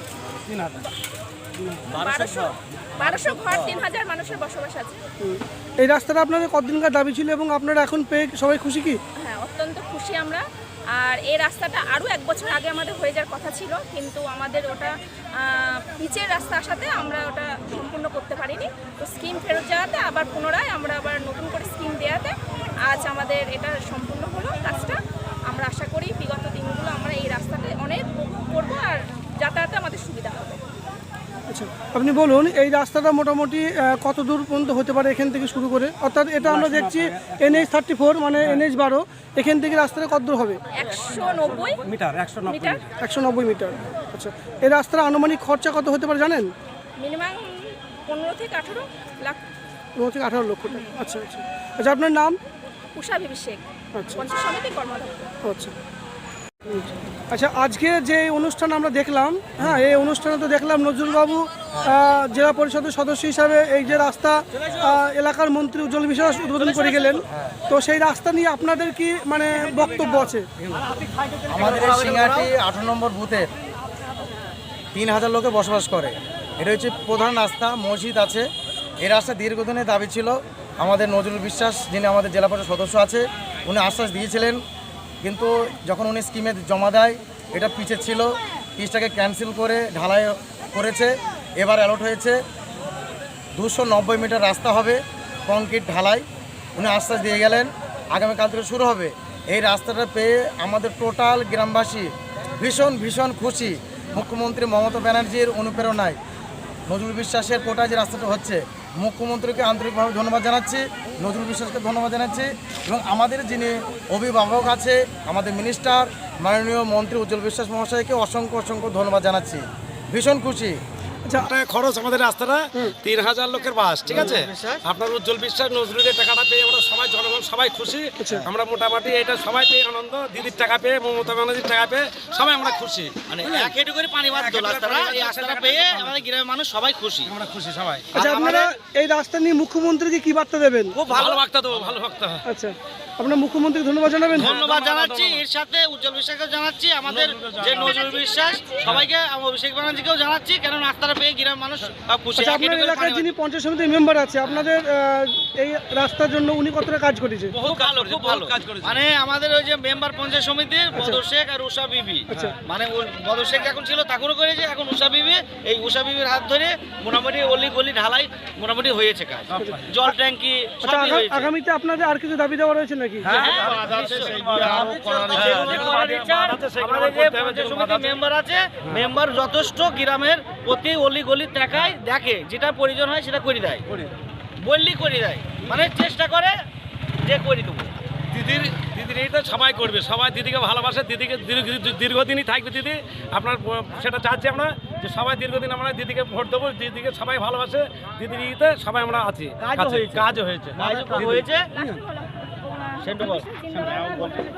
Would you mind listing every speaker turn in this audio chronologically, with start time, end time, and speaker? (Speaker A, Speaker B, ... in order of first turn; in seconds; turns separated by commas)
Speaker A: 0.5-0.8, Speaker B: 1.9-5.0, Speaker C: 1.9-3.8, Speaker D: 5.2-9.0, Speaker B: 9.2-25.0, Speaker B: 25.5-30.6, Speaker D: 31.5-40.6, Speaker A: 36.4-37.6, Speaker B: 40.7-41.8, Speaker A: 41.8-42.8, Speaker B: 42.5-42.8, Speaker D: 43.0-46.5, Speaker B: 47.0-49.4, Speaker D: 50.0-52.4, Speaker B: 53.0-53.6, Speaker D: 53.9-54.2, Speaker B: 54.1-55.3, Speaker D: 55.4-55.7, Speaker D: 56.6-70.5, Speaker E: 71.5-73.5, Speaker C: 71.5-72.5, Speaker E: 74.9-78.5, Speaker E: 79.0-84.6, Speaker E: 85.2-92.4, Speaker E: 93.5-96.2, Speaker E: 96.8-106.2, Speaker E: 106.9-120.8, Speaker D: 121.2-121.5, Speaker A: 121.3-133.7, Speaker C: 124.1-124.8, Speaker D: 128.2-128.4, Speaker C: 133.3-137.3, Speaker A: 134.3-136.2, Speaker A: 137.2-138.1, Speaker C: 138.1-138.7, Speaker D: 138.1-141.0, Speaker C: 140.9-141.5, Speaker A: 141.1-142.4, Speaker D: 142.4-144.6, Speaker C: 144.3-153.3, Speaker A: 144.4-145.4, Speaker A: 147.0-148.0, Speaker B: 147.9-148.7, Speaker A: 148.8-149.1, Speaker D: 152.4-157.6, Speaker A: 157.5-159.0, Speaker C: 157.6-171.5, Speaker D: 160.9-161.2, Speaker D: 162.3-162.6, Speaker A: 169.5-170.0, Speaker D: 170.8-173.3, Speaker A: 173.2-178.2, Speaker C: 173.3-183.9, Speaker C: 184.6-186.6, Speaker C: 187.2-188.1, Speaker A: 188.3-201.8, Speaker C: 199.6-201.7, Speaker B: 201.8-202.3, Speaker B: 202.9-204.1, Speaker C: 203.0-204.5